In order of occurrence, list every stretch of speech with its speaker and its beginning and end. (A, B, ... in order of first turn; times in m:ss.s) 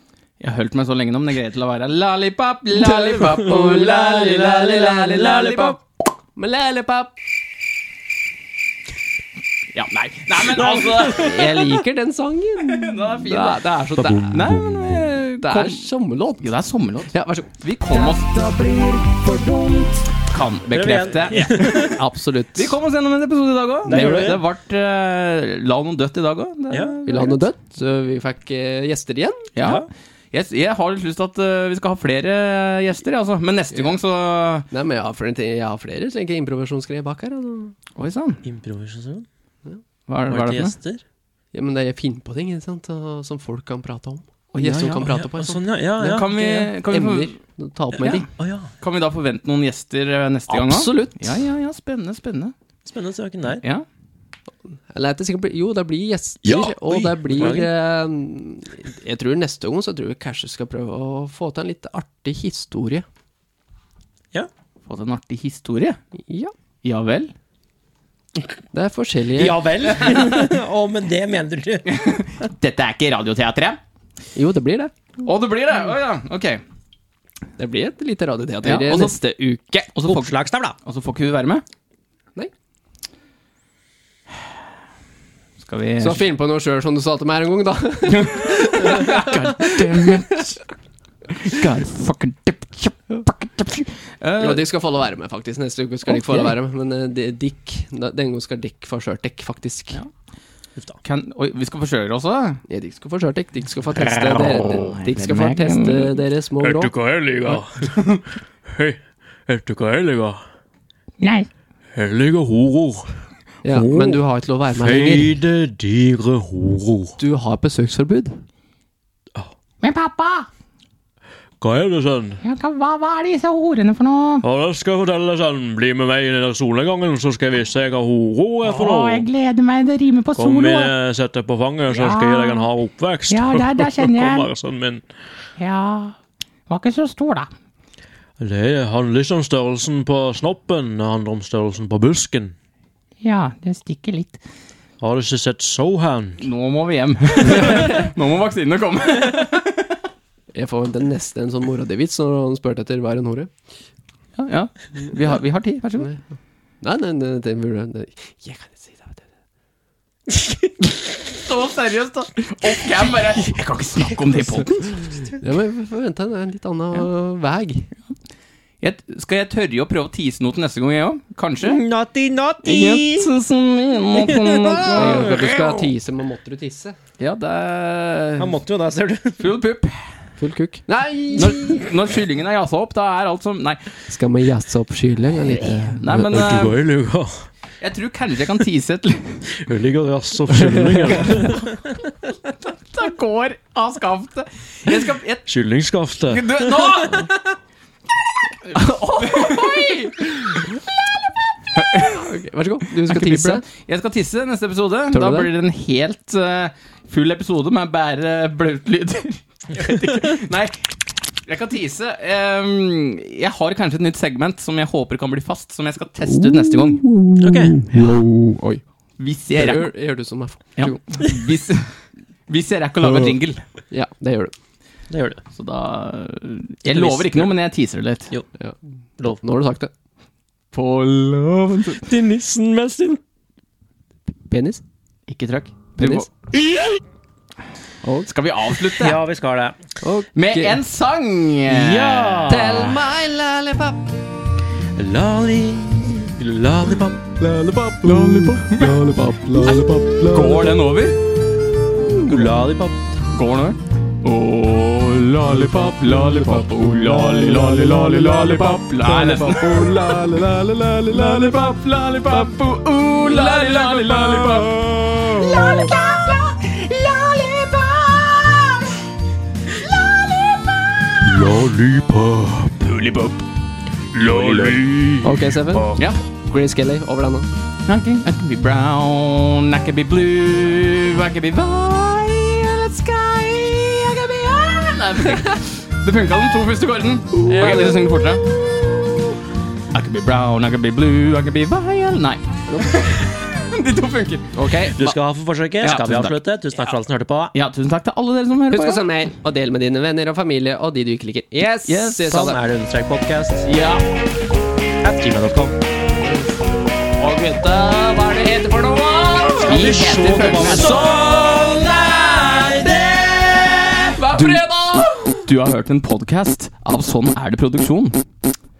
0:00.4-0:05.8 A
0:02.8-0:05.8 B
0:06.4-0:07.1 B
0:09.7-0:11.4 A
0:10.4-0:11.7 C
0:11.1-0:14.4 B
0:12.6-0:13.6 A
0:14.0-0:15.2 C
0:14.2-0:15.9 A
0:15.4-0:16.5 B
0:16.4-0:18.6 A
0:17.1-0:20.0 B
0:20.2-0:21.5 A
0:20.7-0:22.0 C
0:21.3-0:22.8 B
0:22.6-0:27.4 A
0:23.9-0:24.4 C
0:26.7-0:27.0 C
0:27.0-0:29.5 B
0:29.6-0:34.7 A
0:29.6-0:29.9 C
0:34.7-0:37.8 B
0:38.0-0:38.4 A
0:38.4-0:39.3 C
0:40.1-0:40.7 A
0:40.3-0:41.0 C
0:41.5-0:46.3 B
0:44.6-0:45.1 A
0:44.6-0:46.7 C
0:46.0-0:47.4 A
0:46.8-0:48.3 B
0:47.9-0:48.7 C
0:48.8-0:52.5 A
0:50.5-0:51.3 B
0:52.9-0:53.6 C
0:54.9-1:03.0 B
0:56.4-0:57.7 C
1:04.9-1:06.0 A
1:06.3-1:06.5 B
1:06.8-1:07.3 A
1:08.7-1:09.6 B
1:09.4-1:11.9 C
1:10.1-1:10.5 A
1:11.9-1:13.8 A
1:14.4-1:14.9 B
1:15.2-1:16.6 A
1:17.6-1:19.9 B
1:18.6-1:19.2 A
1:19.9-1:21.6 A
1:20.0-1:20.8 C
1:25.6-1:26.2 A
1:26.0-1:30.1 B
1:28.1-1:30.6 A
1:31.3-1:34.6 A
1:34.4-1:40.0 B
1:36.1-1:36.6 A
1:41.0-1:42.6 A
1:42.7-1:46.9 B
1:44.0-1:44.7 C
1:44.5-1:46.2 A
1:46.6-1:50.4 C
1:51.2-1:51.5 D
1:51.9-1:53.1 C
1:53.6-1:55.3 B
1:53.7-1:54.2 C
1:54.7-1:57.2 C
1:57.2-1:58.4 B
1:59.8-2:00.5 D
2:01.6-2:02.4 C
2:02.4-2:04.4 D
2:04.4-2:09.3 C
2:08.6-2:10.9 D
2:10.3-2:15.0 C
2:11.9-2:12.6 D
2:13.3-2:14.5 D
2:15.6-2:16.2 D
2:16.7-2:17.5 D
2:18.4-2:22.6 C
2:23.2-2:24.4 D
2:25.0-2:26.4 C
2:26.4-2:29.9 A
2:30.5-2:33.5 B
2:34.4-2:36.1 A
2:36.0-2:36.2 B
2:36.8-2:39.2 B
2:41.3-2:44.9 A
2:44.6-2:47.9 B
2:48.8-2:51.8 A
2:51.6-2:53.3 C
2:52.6-2:55.4 A
2:54.1-2:55.9 C
2:54.9-2:57.0 B
2:57.2-2:58.6 A
2:58.4-2:59.4 C
2:59.4-2:59.9 A
3:00.4-3:01.8 B
3:01.3-3:03.9 A
3:04.1-3:06.0 B
3:05.7-3:06.8 A
3:06.1-3:07.4 C
3:07.8-3:09.4 A
3:09.5-3:12.1 C
3:10.5-3:11.5 B
3:12.6-3:15.4 A
3:15.5-3:17.2 C
3:16.3-3:17.3 A
3:18.6-3:20.6 A
3:18.7-3:20.7 B
3:21.7-3:22.3 A
3:21.9-3:23.6 B
3:23.0-3:30.9 A
3:25.1-3:25.5 B
3:31.4-3:37.0 A
3:36.3-3:38.8 B
3:37.4-3:37.8 C
3:39.2-3:39.9 A
3:39.5-3:41.2 B
3:40.8-3:41.9 A
3:42.5-3:43.6 A
3:43.9-3:44.5 B
3:45.1-3:45.4 C
3:45.5-3:48.3 A
3:46.9-3:47.4 B
3:48.6-3:49.9 B
3:50.7-3:52.0 A
3:52.0-3:53.2 C
3:54.5-3:54.8 B
3:55.3-3:56.3 A
3:56.0-3:56.3 B
3:58.0-3:58.3 B
3:58.3-3:59.2 A
3:59.0-3:59.8 C
4:00.0-4:00.8 B
4:00.3-4:02.6 A
4:01.7-4:03.0 C
4:02.5-4:04.1 B
4:05.0-4:07.3 C
4:07.4-4:09.0 A
4:08.0-4:10.7 B
4:09.6-4:11.2 A
4:09.7-4:10.6 C
4:12.2-4:13.2 C
4:13.3-4:24.8 A
4:17.0-4:20.5 C
4:23.6-4:25.9 C
4:25.5-4:28.9 A
4:25.5-4:25.9 B
4:29.8-4:31.4 A
4:31.2-4:32.9 C
4:32.8-4:33.4 A
4:34.1-4:36.1 C
4:34.3-4:34.9 A
4:35.2-4:37.5 B
4:35.9-4:36.2 A
4:37.9-4:48.5 A
4:47.4-4:48.1 B
4:49.9-4:55.1 A
4:52.7-4:53.2 B
4:54.5-4:55.0 B
4:54.9-4:57.5 C
4:55.8-4:56.9 A
4:57.5-4:59.1 A
4:58.7-5:02.6 B
5:01.9-5:02.4 A
5:02.2-5:03.7 C
5:03.6-5:04.0 A
5:05.0-5:05.8 C
5:06.2-5:06.6 B
5:07.2-5:18.2 A
5:09.6-5:14.6 C